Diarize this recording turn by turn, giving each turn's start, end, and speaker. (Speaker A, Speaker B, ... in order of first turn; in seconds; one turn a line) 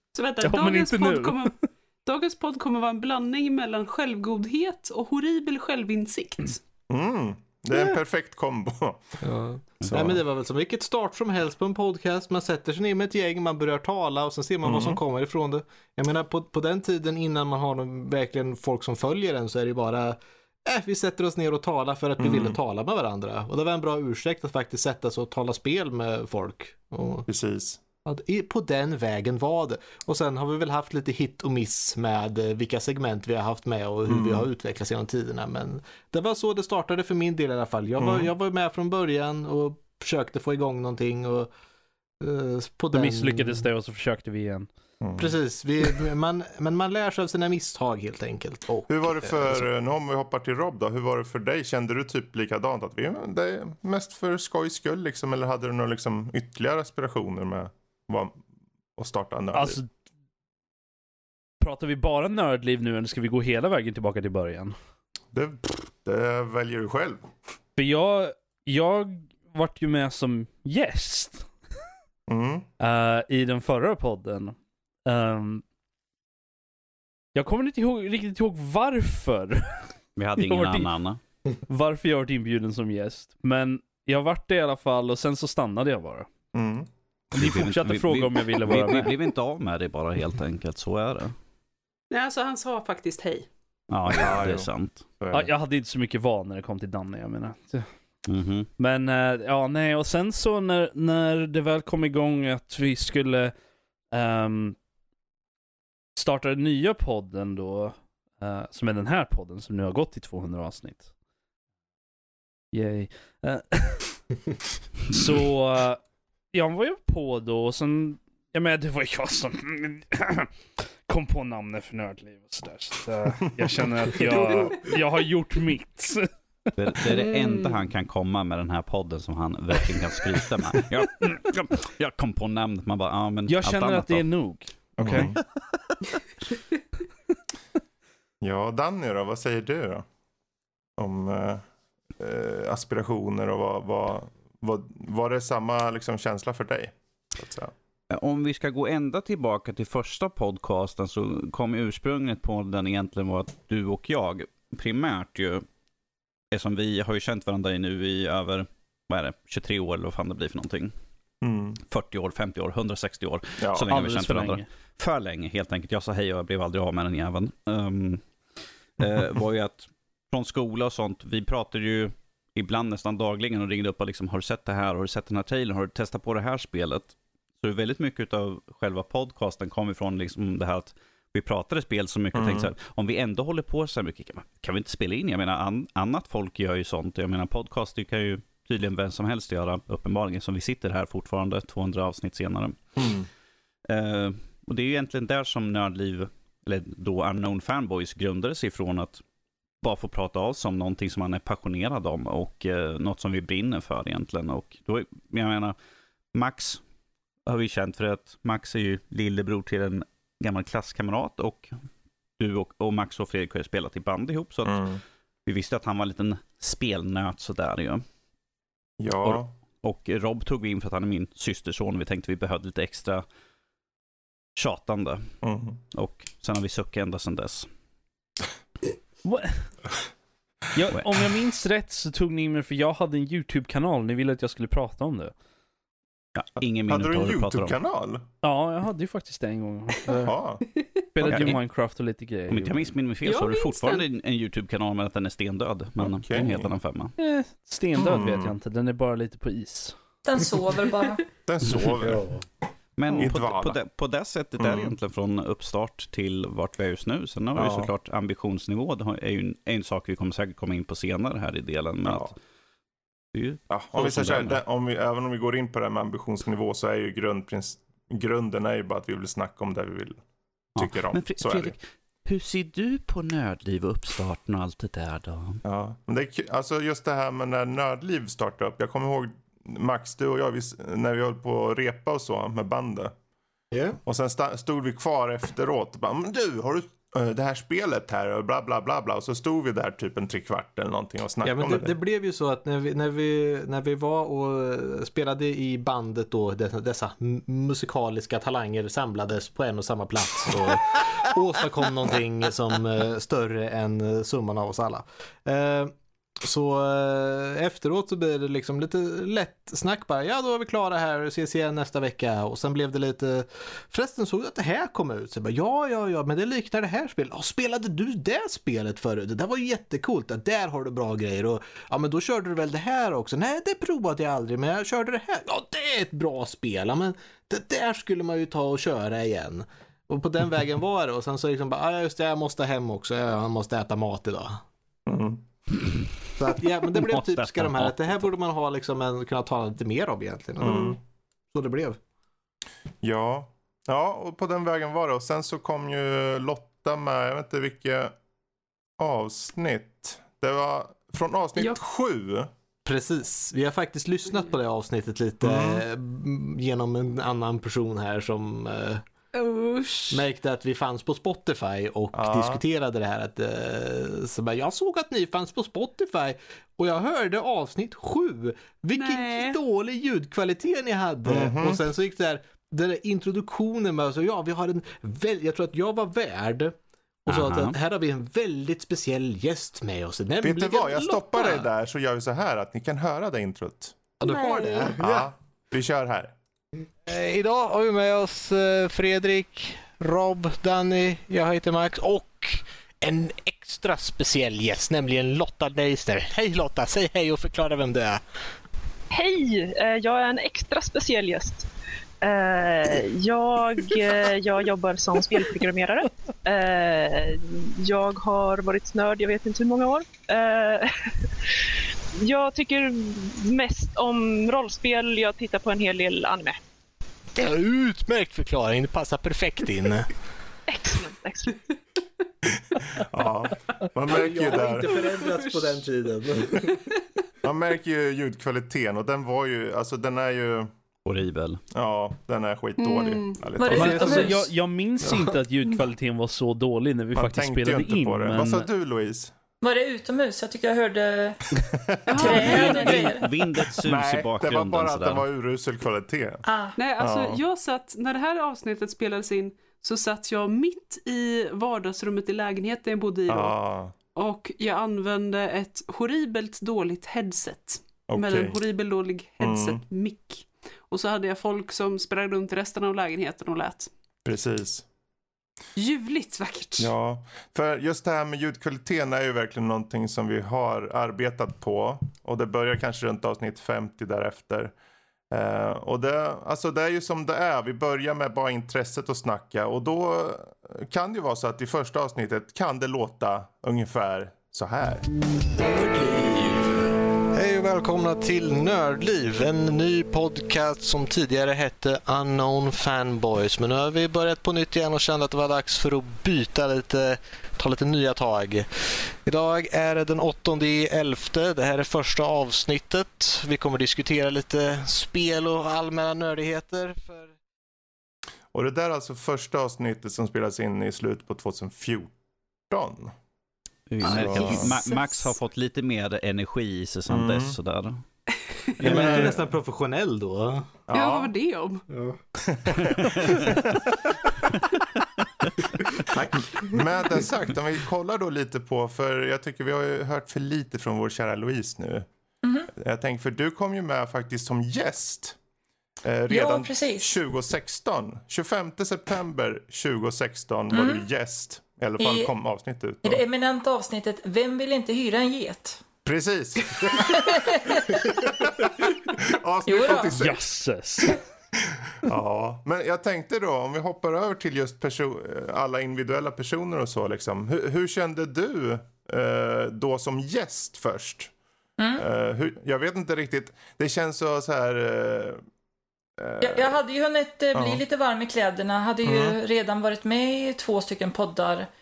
Speaker A: 0.1-6.6
Speaker B: 0.4-1.5
Speaker C: 6.9-9.2
Speaker D: 9.2-27.3
Speaker C: 9.9-10.2
Speaker C: 14.6-15.0
Speaker C: 22.2-22.6
Speaker C: 27.3-27.8
Speaker D: 28.0-41.5
Speaker C: 34.1-34.5
Speaker C: 38.0-38.3
Speaker D: 42.2-43.6
Speaker B: 42.9-44.7
Speaker C: 45.0-45.3
Speaker D: 45.1-49.6
Speaker C: 48.9-58.4
Speaker C: 59.0-59.8
Speaker B: 59.5-59.9
Speaker B: 61.6-64.8
Speaker C: 65.3-67.2
Speaker B: 67.8-71.5
Speaker C: 72.3-72.7
Speaker B: 72.8-75.6
Speaker B: 77.3-80.9
Speaker E: 80.2-81.2
Speaker B: 81.7-86.3
Speaker C: 86.5-86.9
Speaker B: 87.3-89.1
Speaker E: 87.3-91.3
Speaker A: 92.1-93.5
Speaker E: 93.9-95.0
Speaker C: 94.2-94.7
Speaker C: 95.2-95.5
Speaker B: 95.3-97.9
Speaker E: 98.3-98.7
Speaker B: 98.8-103.5
Speaker B: 104.1-104.8
Speaker B: 106.2-111.1
Speaker B: 112.7-114.2
Speaker B: 115.1-120.5
Speaker B: 121.1-126.3
Speaker E: 126.8-134.2
Speaker B: 133.5-135.3
Speaker C: 135.0-135.4
Speaker C: 138.4-140.1
Speaker C: 141.0-141.6
Speaker C: 142.2-147.7
Speaker E: 148.1-155.6
Speaker E: 156.5-160.9
Speaker C: 161.4-161.8
Speaker E: 161.9-168.2
Speaker C: 163.6-163.8
Speaker B: 163.9-164.6
Speaker E: 169.0-193.0
Speaker C: 182.3-182.7
Speaker C: 193.0-193.3
Speaker E: 193.9-199.2
Speaker E: 199.8-205.8
Speaker E: 206.3-206.8
Speaker E: 207.5-211.7
Speaker E: 212.4-214.8
Speaker C: 214.6-215.0
Speaker E: 215.4-218.0
Speaker C: 219.0-219.5
Speaker E: 219.2-223.2
Speaker E: 224.6-225.3
Speaker C: 225.4-225.8
Speaker E: 225.9-227.7
Speaker B: 229.2-229.7
Speaker B: 230.7-235.3
Speaker E: 236.3-237.8
Speaker C: 236.6-238.2
Speaker B: 238.4-240.3
Speaker C: 240.2-240.6
Speaker B: 241.1-242.8
Speaker C: 241.2-241.5
Speaker E: 241.2-241.6
Speaker E: 242.5-247.1
Speaker A: 243.2-244.1
Speaker C: 246.0-246.7
Speaker B: 247.2-249.9
Speaker C: 248.0-248.5
Speaker F: 250.2-251.2
Speaker C: 251.4-252.2
Speaker E: 253.0-262.3
Speaker C: 253.1-253.8
Speaker C: 254.6-254.9
Speaker C: 257.5-257.9
Speaker C: 262.0-262.3
Speaker E: 263.3-264.6
Speaker C: 263.7-270.2
Speaker C: 270.8-271.7
Speaker E: 270.8-275.6
Speaker C: 275.6-283.1
Speaker D: 283.7-284.0
Speaker C: 284.0-291.9
Speaker D: 291.4-334.6
Speaker C: 335.1-335.4
Speaker D: 336.4-341.0
Speaker E: 337.0-337.9
Speaker C: 340.6-341.0
Speaker D: 341.5-342.0
Speaker C: 343.0-348.1
Speaker C: 349.0-352.5
Speaker D: 352.8-359.0
Speaker C: 355.4-355.8
Speaker A: 359.3-360.2
Speaker D: 360.1-376.7
Speaker C: 362.1-362.6
Speaker A: 368.9-369.6
Speaker C: 371.2-371.8
Speaker D: 377.2-381.1
Speaker E: 377.3-377.7
Speaker C: 380.4-383.9
Speaker A: 381.3-381.6
Speaker D: 384.2-385.3
Speaker C: 385.0-386.3
Speaker D: 387.1-398.2
Speaker G: 399.1-401.7
Speaker G: 402.2-410.9
Speaker G: 412.2-416.6
Speaker D: 417.3-420.1
Speaker G: 420.7-421.6
Speaker C: 423.0-424.9
Speaker D: 424.1-426.8
Speaker C: 427.4-430.7
Speaker E: 431.0-431.6
Speaker C: 431.7-434.2
Speaker A: 432.8-433.5
Speaker F: 433.6-434.4
Speaker B: 433.7-438.7
Speaker D: 433.7-434.3
Speaker C: 437.1-439.3
Speaker F: 439.6-441.4
Speaker A: 442.1-443.2
Speaker F: 442.1-443.2
Speaker C: 442.1-442.5
Speaker E: 442.2-445.2
Speaker C: 443.8-446.4
Speaker F: 446.4-446.8
Speaker A: 446.8-453.5
Speaker C: 447.0-447.4
Speaker C: 453.3-453.9
Speaker A: 454.1-463.9
Speaker C: 458.1-458.6
Speaker C: 459.4-459.8
Speaker C: 464.2-464.9
Speaker A: 465.8-466.9
Speaker C: 466.8-474.7
Speaker C: 475.3-485.0
Speaker D: 487.3-507.3
Speaker C: 508.5-512.1
Speaker C: 512.7-513.1
Speaker E: 513.9-518.0
Speaker C: 514.0-514.8
Speaker C: 517.1-517.5
Speaker C: 518.8-519.4
Speaker D: 518.8-520.7
Speaker C: 520.9-521.3
Speaker A: 520.9-521.8
Speaker D: 521.9-522.2
Speaker C: 522.5-523.7
Speaker D: 526.1-526.8
Speaker C: 526.7-532.1
Speaker F: 532.4-532.7
Speaker C: 532.7-535.4
Speaker C: 536.0-543.2
Speaker F: 536.3-537.1
Speaker F: 540.7-541.0
Speaker F: 542.0-542.3
Speaker F: 543.0-545.8
Speaker C: 546.0-547.1
Speaker F: 546.9-548.2
Speaker C: 548.2-550.4
Speaker F: 549.6-550.2
Speaker B: 550.1-551.2
Speaker C: 552.0-561.3
Speaker C: 562.0-565.4
Speaker C: 566.2-566.8
Speaker F: 566.4-571.7
Speaker C: 567.5-567.8
Speaker C: 569.0-569.4